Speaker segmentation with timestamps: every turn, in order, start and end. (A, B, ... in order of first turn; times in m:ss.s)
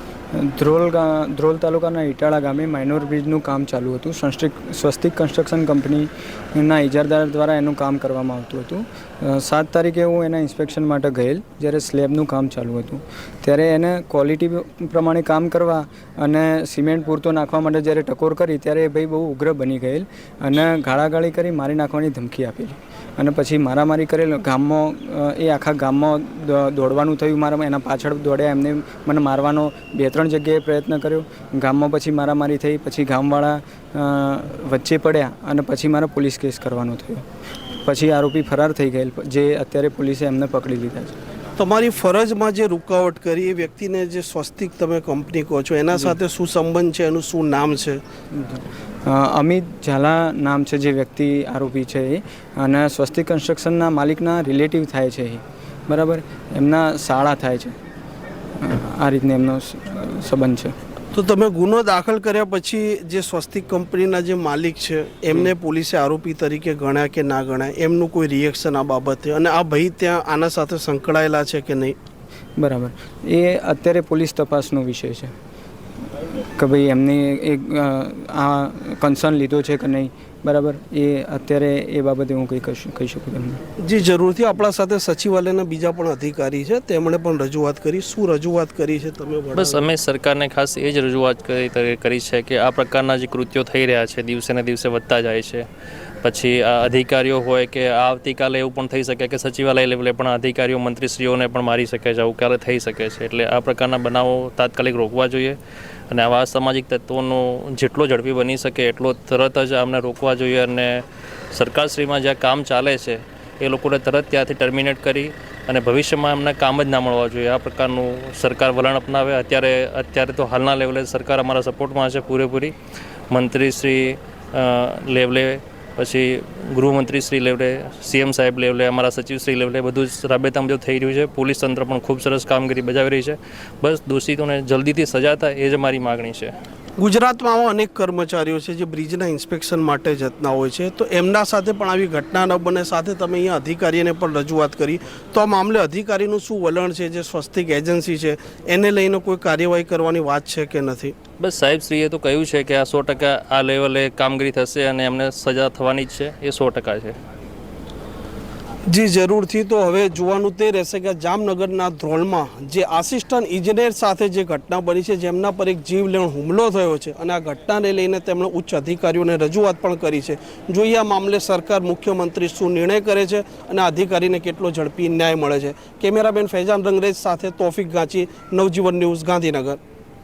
0:00.4-0:37.2 A
0:37.8-0:41.2 A
0:41.6-0:48.0 B
0:48.4-0:57.7 A
0:58.6-1:00.7 A
1:01.1-1:12.0 B
1:12.6-1:15.3 A
1:16.6-1:23.6 A
1:23.8-1:29.8 B
1:29.6-1:35.6 C
1:36.2-1:45.6 C
1:46.1-2:02.7 C
2:03.3-2:16.5 C
2:17.0-2:31.2 B
2:31.4-2:37.2 C
2:38.9-2:59.8 B